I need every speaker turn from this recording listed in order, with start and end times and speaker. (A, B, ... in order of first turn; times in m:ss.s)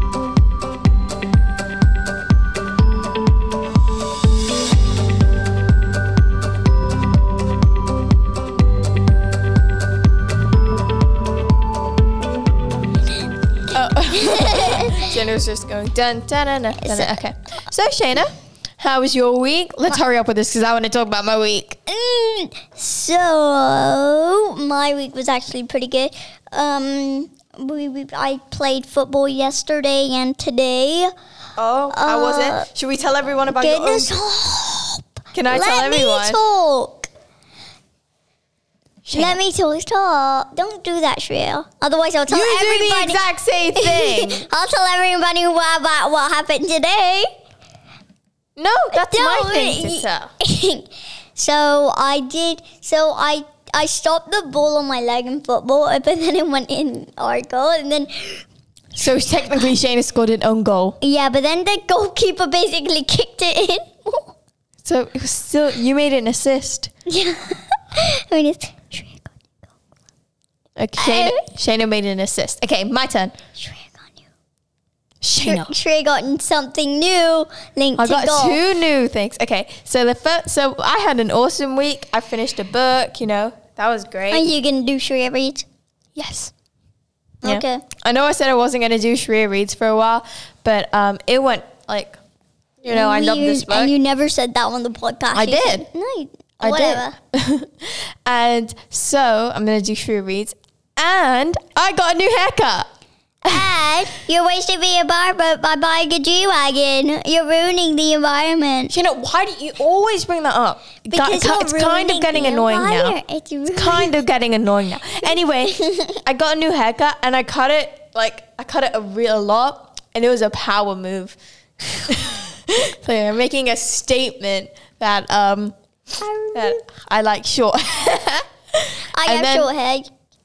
0:13.7-0:21.8 A
0:14.1-0:15.1 B
0:16.8-0:17.2 B
0:21.9-0:31.1 B
0:31.6-0:34.1 A
0:31.9-0:32.6 B
0:33.5-0:37.1 B
0:35.3-0:36.4 A
0:39.0-0:39.4 A
0:39.1-0:43.2 B
0:42.3-0:44.4 A
0:43.8-0:47.3 B
0:48.6-0:50.3 A
0:48.9-0:58.4 B
0:58.9-1:01.0 A
1:01.0-1:04.3 B
1:04.8-1:06.9 A
1:07.0-1:09.6 B
1:10.8-1:13.3 A
1:11.0-1:11.4 B
1:13.6-1:14.2 B
1:15.2-1:15.7 A
1:15.4-1:18.6 B
1:18.0-1:24.5 A
1:24.3-1:25.6 B
1:26.2-1:26.5 A
1:27.4-1:27.8 B
1:27.4-1:32.2 A
1:32.8-1:33.9 A
1:32.9-1:37.1 B
1:35.3-1:35.8 A
1:36.6-1:42.9 A
1:43.4-1:48.9 B
1:43.5-1:43.7 A
1:48.9-1:53.2 A
1:51.1-1:54.1 B
1:53.7-2:01.4 A
1:55.2-1:56.2 B
2:02.0-2:05.7 A
2:06.2-2:06.8 B
2:06.5-2:09.7 A
2:09.2-2:10.1 B